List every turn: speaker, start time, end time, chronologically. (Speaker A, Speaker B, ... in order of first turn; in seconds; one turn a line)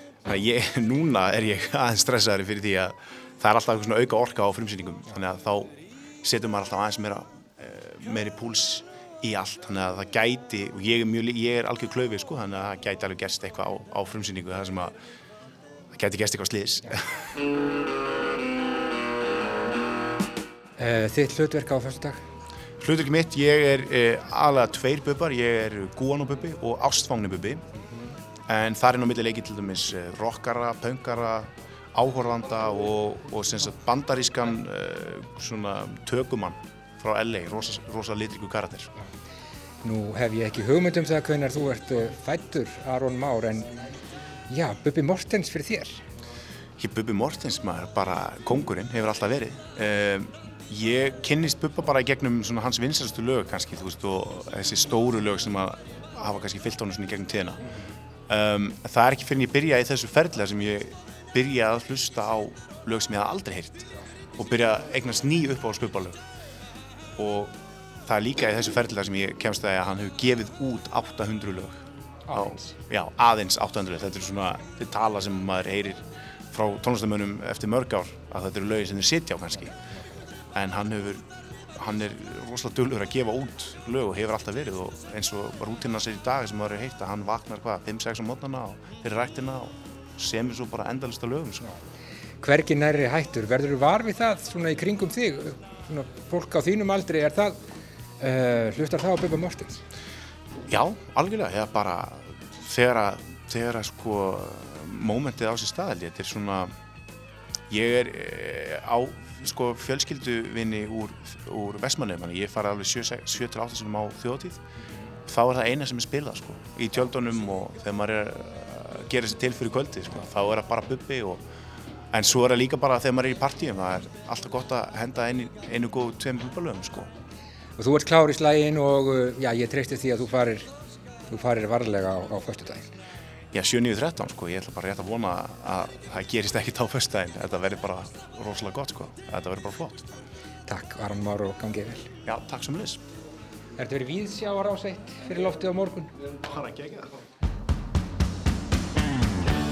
Speaker A: 0.2-14.9
Speaker A: 15.9-17.2
Speaker B: 20.8-22.2
Speaker A: 22.8-27.6
Speaker A: 28.5-38.9
Speaker B: 39.8-43.7
Speaker B: 44.5-46.0
Speaker A: 46.8-57.6
Speaker A: 58.3-66.2
Speaker A: 67.2-79.8
Speaker B: 72.3-72.7
Speaker A: 80.5-91.7
Speaker B: 92.4-97.6
Speaker B: 98.2-99.8
Speaker A: 100.7-106.7
Speaker A: 107.7-114.7
Speaker A: 115.2-121.5
Speaker A: 122.1-127.1
Speaker B: 127.8-130.7
Speaker B: 131.3-132.9
Speaker A: 133.5-140.1
Speaker B: 140.7-142.1
Speaker A: 142.2-143.0
Speaker B: 143.8-146.1
Speaker A: 146.2-147.2